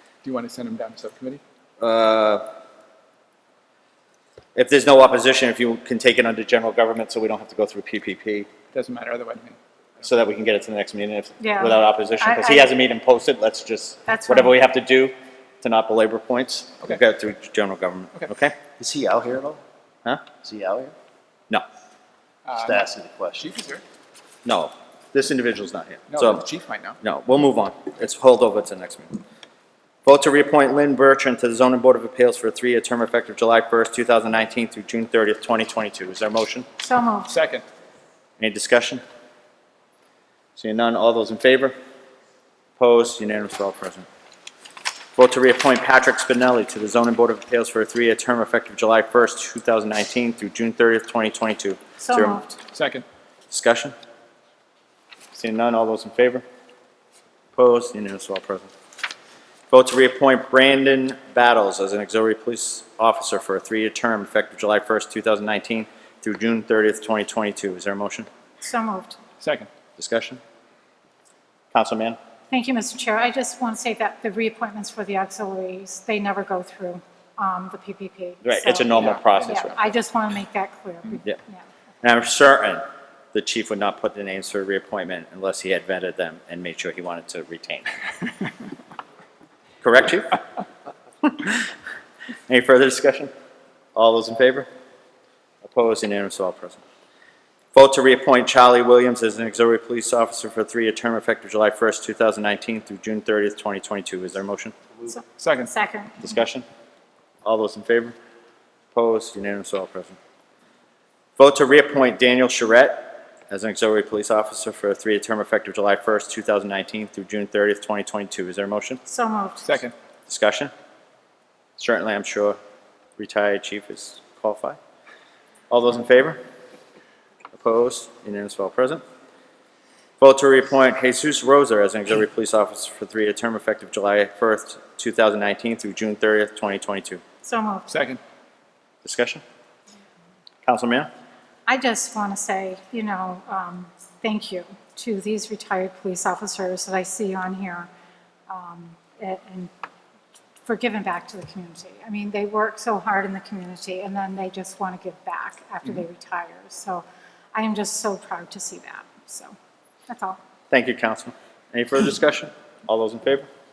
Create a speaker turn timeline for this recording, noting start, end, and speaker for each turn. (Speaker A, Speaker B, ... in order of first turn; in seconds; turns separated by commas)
Speaker A: 0.2-1.4, Speaker B: 1.8-2.5, Speaker B: 4.5-8.5, Speaker A: 8.7-9.6, Speaker B: 10.0-18.6, Speaker C: 11.4-12.7, Speaker C: 14.1-14.5, Speaker D: 18.8-19.6, Speaker D: 20.4-20.9, Speaker A: 22.5-23.8, Speaker D: 22.5-23.4, Speaker B: 24.4-26.4, Speaker A: 26.1-27.0, Speaker B: 27.0-29.2, Speaker B: 30.0-36.7, Speaker C: 36.8-37.3, Speaker A: 37.3-37.6, Speaker B: 38.4-39.0, Speaker B: 40.5-41.8, Speaker B: 42.8-44.0, Speaker B: 45.1-52.4, Speaker C: 52.0-52.6, Speaker A: 52.7-53.0, Speaker B: 53.5-53.9, Speaker B: 55.3-56.4, Speaker B: 57.5-58.7, Speaker B: 59.7-68.3, Speaker C: 68.6-69.2, Speaker A: 69.4-69.7, Speaker B: 70.0-70.4, Speaker B: 71.7-72.2, Speaker C: 72.5-81.6, Speaker B: 78.4-79.7, Speaker A: 79.0-79.4, Speaker B: 82.0-87.8, Speaker B: 89.8-90.4, Speaker B: 91.2-91.7, Speaker B: 92.5-93.3, Speaker B: 93.9-94.7, Speaker B: 95.6-96.8, Speaker B: 97.7-104.7, Speaker C: 105.1-106.3, Speaker A: 105.4-105.7, Speaker B: 106.2-106.7, Speaker B: 107.4-108.2, Speaker B: 108.9-110.2, Speaker B: 111.4-119.0, Speaker C: 119.0-119.8, Speaker A: 119.7-119.9, Speaker B: 120.3-120.7, Speaker B: 121.8-122.6, Speaker B: 123.2-124.8, Speaker B: 125.7-126.4, Speaker B: 127.5-129.0, Speaker B: 130.2-137.2, Speaker C: 137.4-137.9, Speaker A: 137.9-138.2, Speaker B: 139.0-139.4, Speaker B: 140.6-141.1, Speaker C: 141.7-147.9, Speaker C: 148.5-149.7, Speaker C: 150.6-159.5, Speaker C: 160.1-160.4, Speaker B: 160.7-163.5